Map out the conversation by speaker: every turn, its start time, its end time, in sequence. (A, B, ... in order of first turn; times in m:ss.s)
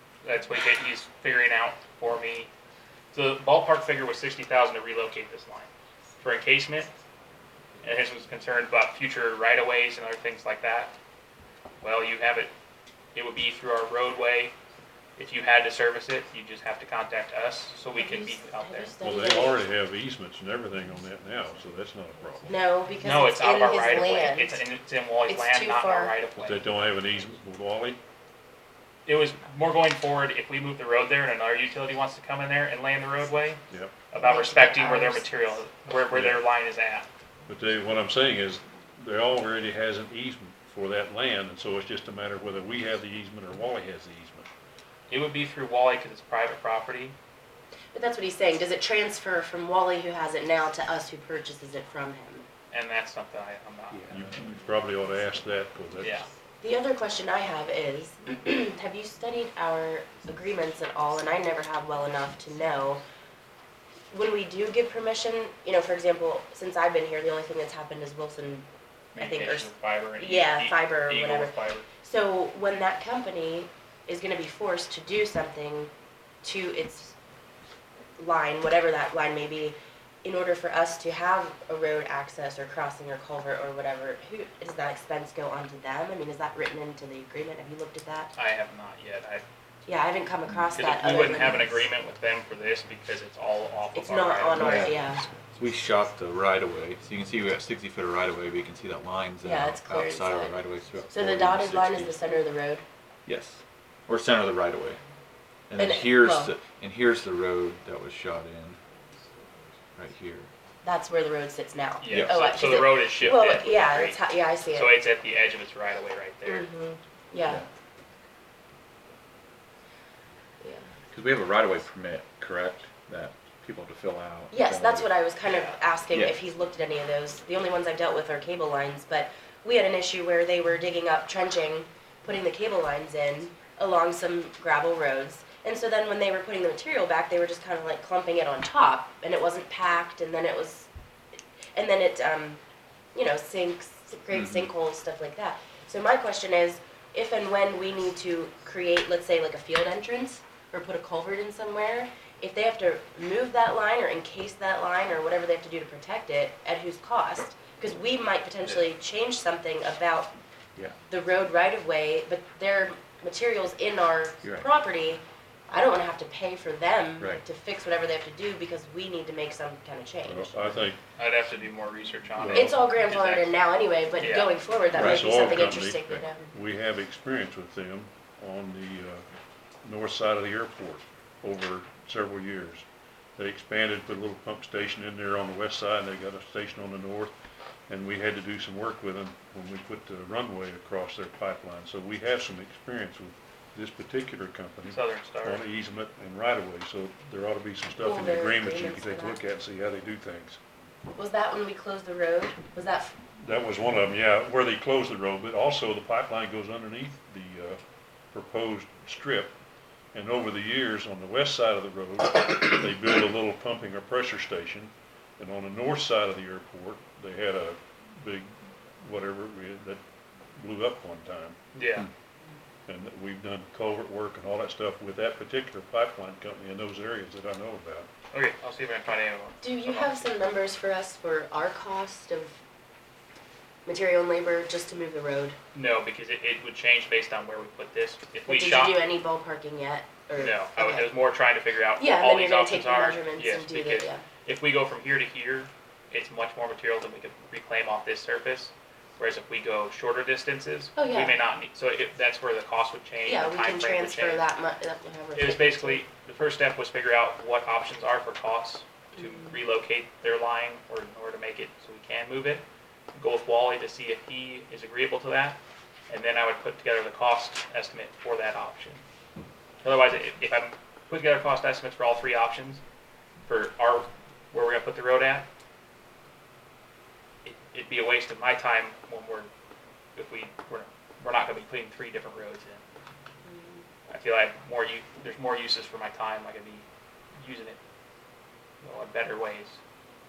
0:00.2-0:02.5 A
0:03.1-0:05.7 A
0:06.2-0:06.9 A
0:07.8-0:10.9 A
0:11.8-0:12.5 A
0:13.1-0:14.6 A
0:15.2-0:19.0 A
0:18.0-0:19.6 B
0:19.0-0:22.6 C
0:22.5-0:24.6 B
0:23.0-0:26.6 A
0:25.3-0:26.2 B
0:26.4-0:28.0 C
0:29.1-0:37.1 A
0:33.7-0:33.9 C
0:34.2-0:35.5 B
0:36.1-0:36.4 C
0:37.5-0:44.5 C
0:45.1-0:47.2 A
0:47.9-0:52.4 B
0:52.7-0:54.1 A
0:53.9-0:54.3 D
0:54.1-0:56.2 C
0:56.0-0:56.3 A
0:56.6-1:03.0 B
1:04.1-1:15.9 B
1:09.2-1:11.9 A
1:16.4-1:17.1 B
1:18.2-1:28.3 B
1:28.3-1:29.4 A
1:29.9-1:31.8 B
1:30.7-1:35.0 A
1:34.0-1:35.2 B
1:34.6-1:42.2 D
1:39.4-1:40.6 B
1:41.1-1:42.8 B
1:43.3-1:45.0 D
1:45.7-1:48.8 D
1:45.8-1:46.6 B
1:50.0-1:50.5 D
1:50.8-1:55.0 B
1:52.0-1:56.7 A
1:52.0-1:52.5 D
1:56.4-1:57.6 B
2:01.1-2:05.1 D
2:04.5-2:20.9 B
2:05.4-2:05.7 A
2:21.8-2:22.6 B
2:23.2-2:40.3 B
2:24.3-2:24.7 D
2:41.1-2:50.5 B
2:44.4-2:44.7 D
2:50.2-2:51.0 C
2:51.2-2:53.6 A
2:52.4-2:52.8 C
2:52.5-2:56.4 B
2:54.2-2:54.6 A
2:54.9-2:56.2 D
2:55.0-2:59.3 C
2:59.8-3:02.9 C
3:03.4-3:07.3 C
3:07.9-3:20.6 C
3:14.9-3:15.6 A
3:18.0-3:19.4 B
3:21.2-3:23.2 B
3:23.4-3:27.8 C
3:28.3-3:29.5 C
3:30.1-3:40.0 C
3:40.6-3:41.6 C
3:41.7-3:42.1 A
3:42.9-3:48.1 C
3:48.3-3:50.2 A
3:49.6-3:52.6 B
3:53.9-3:55.6 B
3:55.7-3:59.0 A
3:58.5-4:01.1 B
4:00.4-4:14.4 A
4:02.0-4:04.2 B
4:11.0-4:11.4 B
4:13.2-4:16.0 B
4:15.4-4:29.0 A
4:19.2-4:19.6 B
4:29.8-4:32.8 A
4:33.5-4:35.5 A
4:37.4-4:39.5 A
4:40.2-4:42.8 A
4:43.4-4:43.8 B
4:44.1-4:46.9 A
4:47.4-4:47.8 A
4:48.8-4:49.8 A